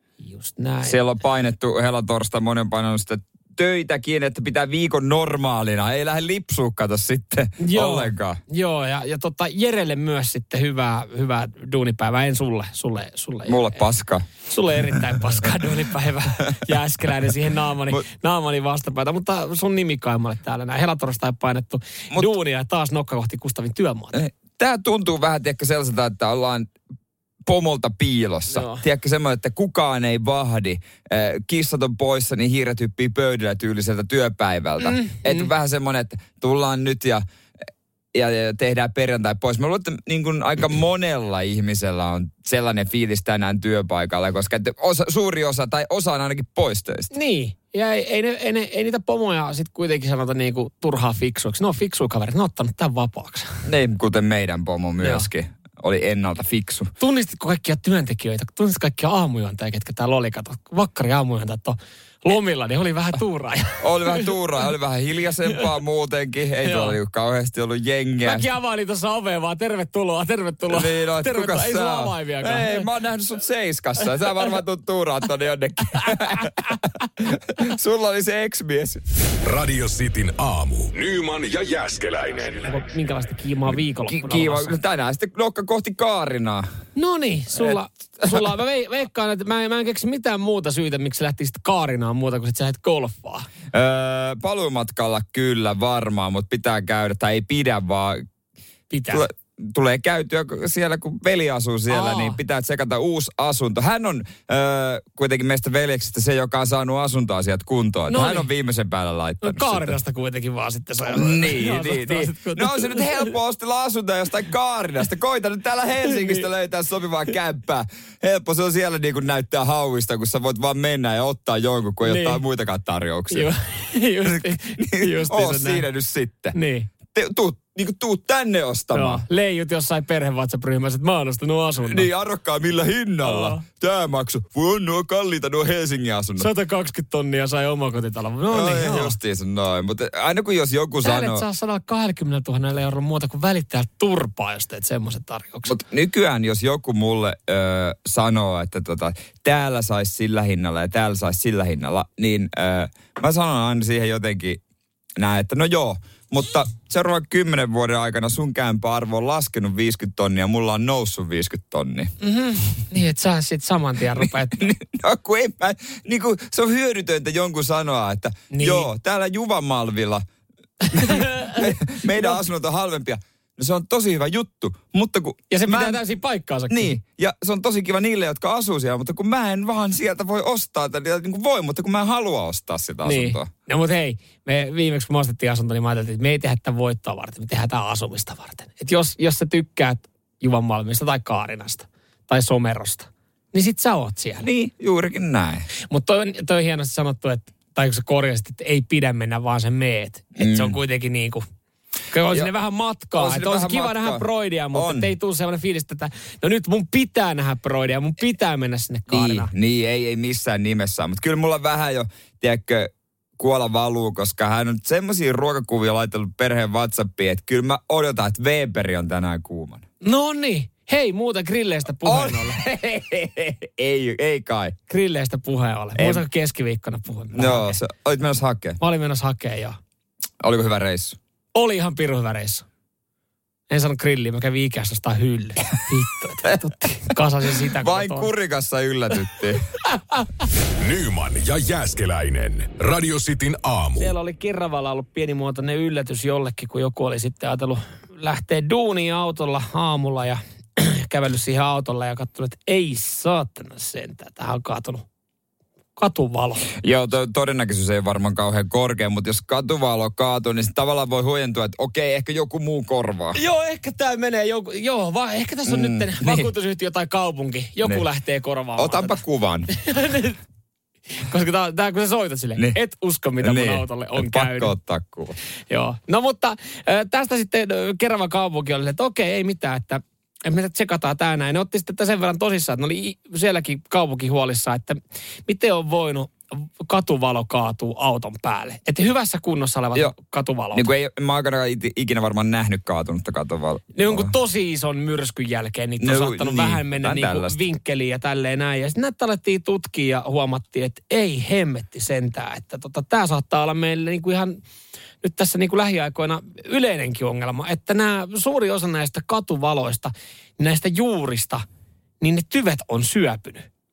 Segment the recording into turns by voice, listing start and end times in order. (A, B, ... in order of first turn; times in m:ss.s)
0:00.2-0:01.0 A
0:00.8-0:08.4 B
0:07.6-0:13.7 A
0:13.5-0:15.0 B
0:14.4-0:24.2 A
0:24.1-0:26.7 B
0:27.5-0:37.2 B
0:28.5-0:28.8 A
0:34.8-0:35.5 A
0:38.1-0:47.1 B
0:47.1-0:53.6 A
0:53.7-0:56.9 B
0:55.0-0:55.3 A
0:57.0-1:04.3 A
1:03.8-1:08.5 B
1:06.6-1:07.0 A
1:08.2-1:12.9 A
1:10.7-1:19.0 B
1:16.0-1:16.8 A
1:19.4-1:22.8 C
1:22.7-1:24.7 A
1:24.1-1:26.7 B
1:27.0-1:33.5 A
1:33.7-1:38.2 B
1:38.9-1:39.2 A
1:39.1-1:50.0 B
1:41.9-1:42.4 A
1:48.1-1:48.5 A
1:49.4-1:53.3 A
1:51.1-2:03.5 B
1:56.1-1:56.4 A
2:02.0-2:02.4 A
2:03.3-2:05.8 A
2:04.2-2:06.6 B
2:06.5-2:06.9 A
2:07.1-2:09.2 B
2:08.9-2:12.1 A
2:11.8-2:16.5 B
2:13.2-2:13.6 A
2:16.4-2:19.2 A
2:18.5-2:21.4 B
2:21.0-2:25.7 A
2:25.7-2:34.6 B
2:35.2-2:42.1 B
2:42.2-2:44.7 A
2:44.2-2:50.2 B
2:48.5-2:48.9 A
2:50.9-2:52.4 A
2:50.9-2:56.0 B
2:55.5-2:57.0 A
2:56.7-3:03.5 B
3:03.0-3:14.5 A
3:14.4-3:15.7 B
3:15.9-3:21.4 A
3:20.4-3:20.8 B
3:22.1-3:29.5 A
3:23.2-3:25.1 B
3:29.1-3:39.8 B
3:40.0-3:42.6 A
3:42.0-3:44.8 B
3:44.9-3:47.8 A
3:46.0-3:46.2 B
3:47.3-3:48.8 B
3:48.8-3:49.8 A
3:50.4-3:51.2 B
3:51.6-3:52.6 A
3:53.7-3:58.3 A
3:57.8-3:59.6 B
3:59.9-4:00.4 A
4:00.6-4:04.1 C
4:04.0-4:15.0 A
4:16.0-4:16.7 A
4:16.8-4:23.4 B
4:23.4-4:29.2 A
4:25.7-4:26.5 B
4:28.8-4:29.7 B
4:29.7-4:30.4 A
4:31.2-4:34.8 A
4:33.4-4:35.4 B
4:35.7-4:50.9 A
4:50.7-4:54.3 B
4:54.0-5:04.6 A
4:56.0-4:57.6 B
5:05.2-5:11.6 A
5:12.2-5:13.7 A